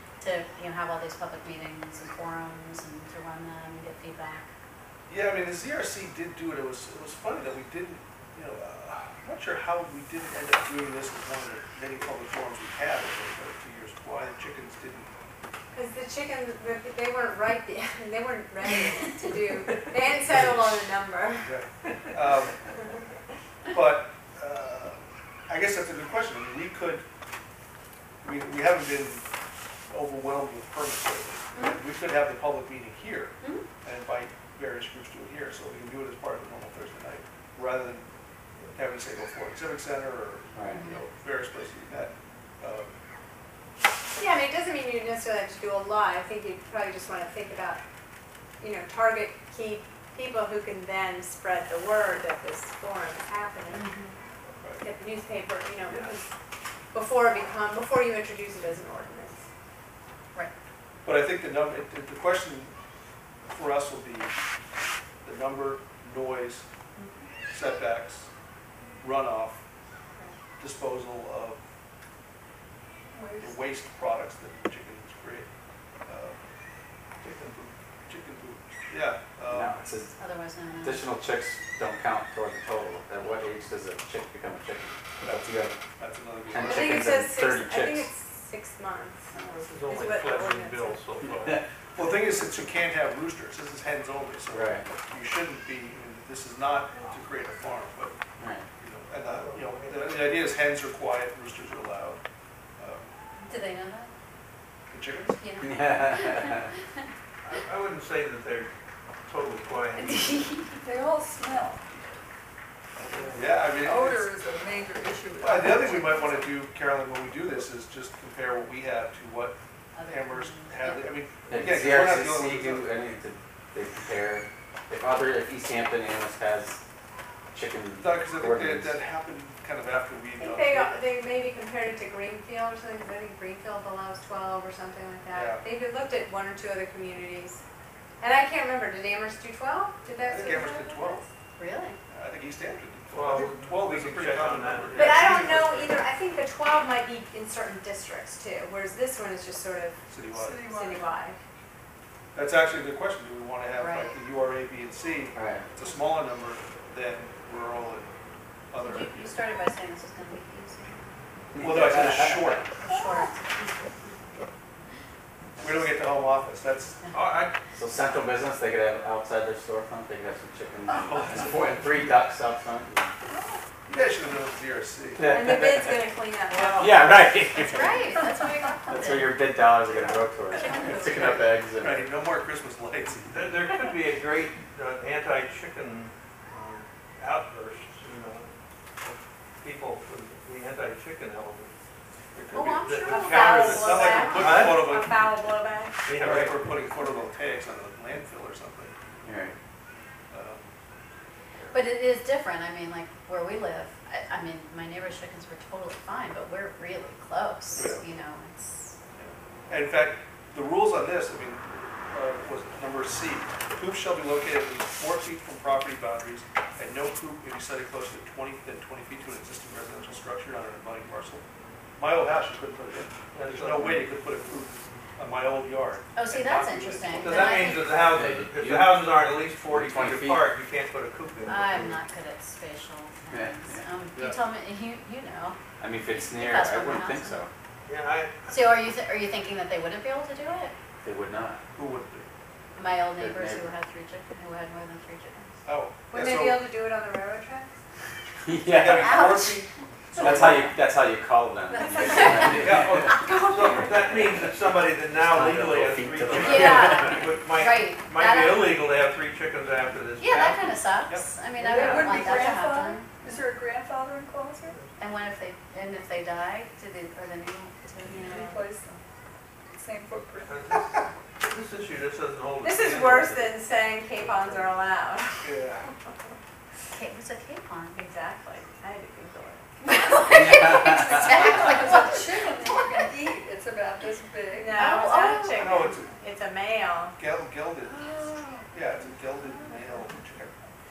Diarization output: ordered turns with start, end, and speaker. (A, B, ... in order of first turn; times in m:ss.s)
0:00.2-0:04.5 A
0:05.1-0:15.1 B
0:15.7-0:21.6 C
0:21.4-0:22.6 B
0:23.7-0:27.0 B
0:28.2-0:29.2 B
0:29.9-0:38.1 B
0:38.7-0:42.9 B
0:40.6-0:40.8 D
0:40.7-0:41.0 A
0:44.2-0:47.8 C
0:48.6-0:53.9 C
0:53.7-0:54.1 A
0:54.8-0:56.3 C
0:55.9-0:56.2 E
0:56.9-0:59.4 C
1:01.0-1:02.7 B
1:03.5-1:04.3 B
1:05.2-1:06.6 B
1:07.5-1:08.3 B
1:09.0-1:09.6 B
1:10.6-1:11.6 B
1:13.1-1:13.6 F
1:13.4-1:15.5 B
1:16.1-1:16.4 B
1:17.2-1:17.7 E
1:18.1-1:19.8 B
1:19.5-1:20.1 D
1:20.2-1:21.0 A
1:20.8-1:25.8 D
1:25.2-1:27.1 B
1:26.5-1:28.1 D
1:26.6-1:29.3 C
1:29.4-1:29.6 D
1:29.5-1:31.6 E
1:29.9-1:31.1 C
1:32.0-1:38.2 B
1:34.5-1:34.9 D
1:37.0-1:37.3 E
1:38.4-1:38.7 D
1:38.8-1:42.2 B
1:39.2-1:40.4 E
1:42.8-1:43.1 B
1:43.4-1:44.1 A
1:44.9-1:45.4 B
1:45.4-1:46.6 A
1:45.6-1:46.7 D
1:47.4-1:48.7 E
1:49.3-1:50.6 E
1:50.8-1:51.8 F
1:51.9-1:52.2 B
1:53.0-1:53.7 E
1:53.3-1:54.3 B
1:53.7-1:56.4 F
1:55.4-2:02.9 B
1:59.9-2:01.1 A
2:01.5-2:06.8 D
2:07.5-2:09.0 D
2:08.0-2:11.0 B
2:10.4-2:17.6 C
2:15.3-2:15.7 B
2:18.2-2:21.3 C
2:20.2-2:21.2 B
2:21.6-2:22.0 A
2:22.1-2:25.5 B
2:23.1-2:26.0 E
2:24.9-2:30.0 C
2:30.1-2:30.6 B
2:30.3-2:31.1 F
2:30.6-2:31.4 C
2:32.3-2:38.1 B
2:33.8-2:34.2 A
2:35.4-2:35.6 D
2:38.7-2:39.4 B
2:38.8-2:41.0 A
2:41.6-2:42.6 D
2:41.6-2:42.7 B
2:42.8-2:43.7 A
2:45.6-2:45.9 D
2:45.6-2:47.0 B
2:47.1-2:47.6 E
2:47.7-2:53.1 D
2:50.9-2:51.9 B
2:53.3-2:53.6 F
2:53.9-2:55.5 B
2:55.2-2:56.0 D
2:55.2-2:57.0 C
2:56.5-2:56.9 E
2:56.8-2:58.0 D
2:57.7-2:59.4 A
2:58.9-3:02.1 D
2:59.9-3:01.3 C
3:00.6-3:01.5 A
3:01.8-3:03.5 B
3:03.3-3:11.7 E
3:12.3-3:15.1 B
3:12.5-3:14.6 A
3:12.8-3:15.0 E
3:13.0-3:16.1 C
3:16.1-3:16.6 E
3:16.1-3:19.0 B
3:19.2-3:19.6 D
3:20.3-3:20.7 B
3:21.7-3:28.9 A
3:27.7-3:28.0 B
3:29.2-3:41.4 B
3:42.0-3:47.8 B
3:43.3-3:44.1 E
3:46.2-3:47.9 A
3:47.2-3:52.0 E
3:48.1-3:49.0 D
3:49.6-3:50.5 D
3:51.5-3:55.6 A
3:53.3-3:53.9 D
3:55.8-3:57.5 D
3:56.1-3:57.4 A
3:57.9-3:58.7 E
3:58.5-4:00.7 A
4:01.0-4:01.6 D
4:01.7-4:02.3 B
4:02.8-4:05.6 A
4:03.2-4:03.7 D
4:05.6-4:06.7 B
4:06.1-4:07.7 C
4:08.5-4:09.5 D
4:08.7-4:10.7 B
4:08.8-4:09.6 A
4:10.2-4:13.1 D
4:11.7-4:12.7 C
4:12.1-4:12.7 A
4:12.6-4:20.8 E
4:12.7-4:13.0 B
4:13.2-4:13.9 A
4:15.1-4:17.3 D
4:16.4-4:18.8 A
4:20.2-4:23.1 A
4:21.1-4:22.1 B
4:21.6-4:24.8 F
4:25.0-4:28.5 A
4:28.1-4:28.7 C
4:28.1-4:29.0 F
4:29.7-4:30.6 F
4:30.4-4:33.6 E
4:32.6-4:35.9 C
4:34.2-4:34.7 E
4:35.4-4:35.9 B
4:36.9-4:38.0 A
4:37.9-4:41.9 C
4:39.9-4:42.5 A
4:40.3-4:41.3 D
4:40.3-4:44.8 F
4:44.5-4:47.2 C
4:44.7-4:45.9 A
4:45.6-4:46.2 B
4:47.2-4:48.1 B
4:48.7-4:50.6 B
4:49.4-4:49.8 F